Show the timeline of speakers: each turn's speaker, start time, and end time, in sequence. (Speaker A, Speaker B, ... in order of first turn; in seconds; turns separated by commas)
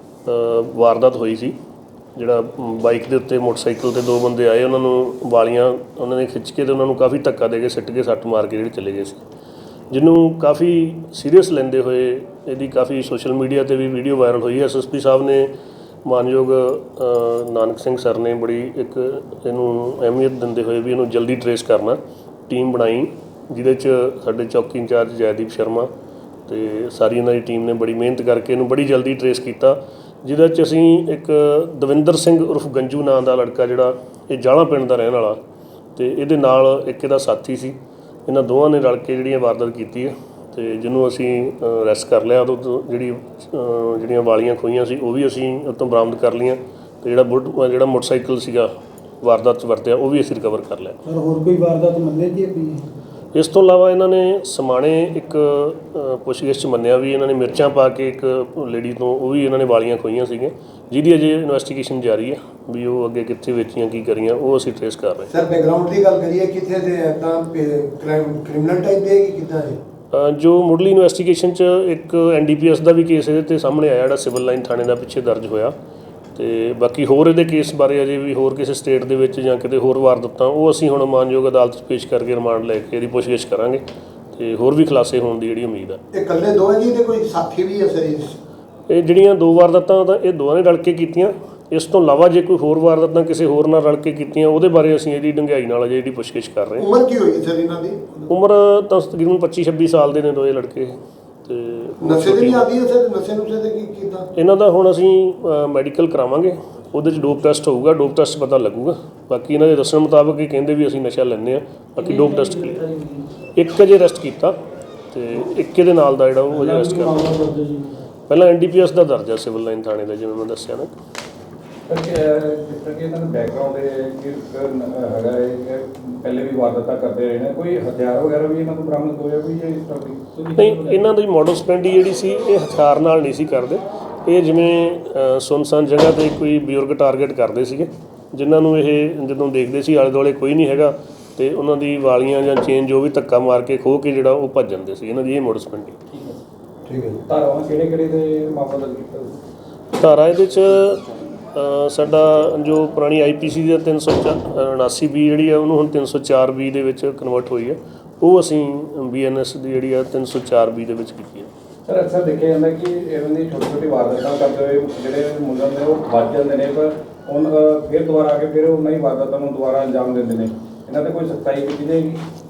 Speaker A: 0.2-1.6, Speaker A: 2.1-9.2, Speaker A: 9.9-15.5, Speaker A: 16.0-25.9, Speaker A: 26.5-35.4, Speaker A: 36.0-48.7, Speaker A: 49.2-51.0, Speaker B: 51.0-52.9, Speaker A: 53.3-65.3, Speaker C: 65.3-69.8, Speaker A: 70.1-75.7, Speaker A: 76.3-86.0, Speaker C: 86.1-88.4, Speaker A: 88.9-96.9, Speaker C: 96.8-98.3, Speaker A: 98.3-102.7, Speaker C: 102.0-104.3, Speaker A: 104.3-112.9, Speaker B: 112.0-113.3, Speaker A: 113.5-114.6, Speaker A: 115.1-117.4, Speaker B: 116.7-118.0, Speaker A: 118.3-120.9, Speaker D: 121.9-131.0, Speaker A: 130.6-146.0, Speaker D: 146.1-146.4, Speaker C: 146.9-147.2, Speaker D: 147.2-149.4, Speaker A: 149.9-161.5, Speaker D: 161.9-172.2